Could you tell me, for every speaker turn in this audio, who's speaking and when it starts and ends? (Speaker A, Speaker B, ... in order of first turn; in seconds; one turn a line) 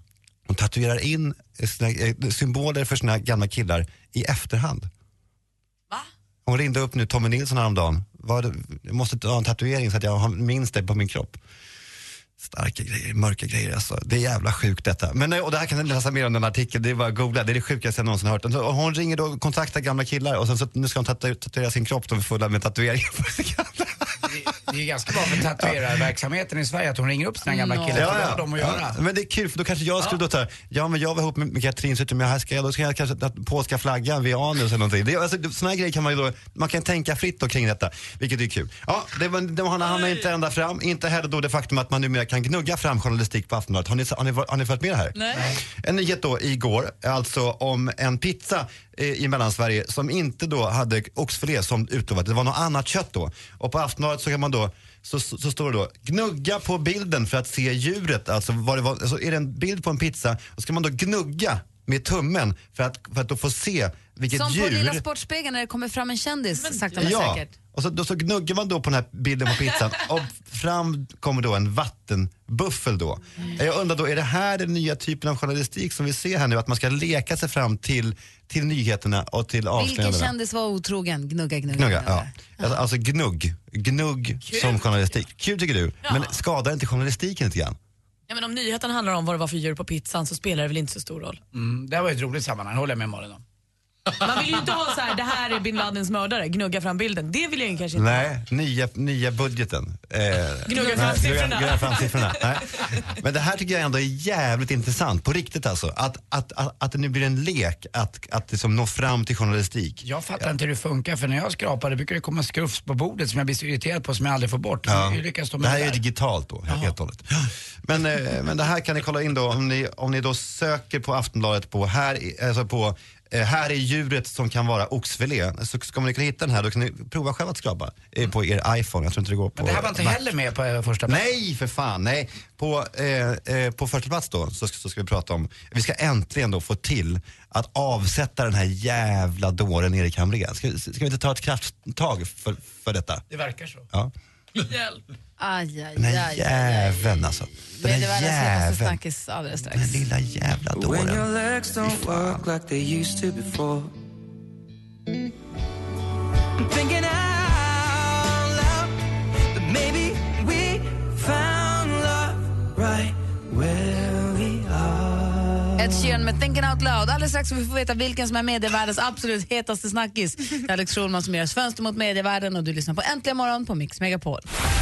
Speaker A: 0.5-4.9
Speaker A: 6.5-11.4
Speaker A: 12.4-24.3
Speaker B: 24.2-29.0
Speaker C: 27.4-28.4
Speaker A: 27.9-65.0
Speaker C: 45.1-45.5
Speaker C: 64.3-67.5
Speaker D: 66.6-67.0
Speaker A: 67.0-80.3
Speaker C: 79.8-82.7
Speaker A: 81.7-87.8
Speaker D: 86.0-86.3
Speaker D: 88.3-91.4
Speaker B: 91.5-93.4
Speaker D: 94.2-98.3
Speaker A: 97.9-110.1
Speaker D: 100.7-102.5
Speaker B: 110.0-116.0
Speaker A: 114.9-130.3
Speaker B: 129.6-131.3
Speaker A: 131.1-143.2
Speaker B: 143.3-143.9
Speaker D: 144.7-145.0
Speaker C: 145.4-150.1
Speaker A: 146.0-149.0
Speaker A: 149.7-152.4
Speaker E: 150.8-153.9
Speaker E: 156.6-159.0
Speaker E: 159.5-166.0
Speaker C: 165.8-174.5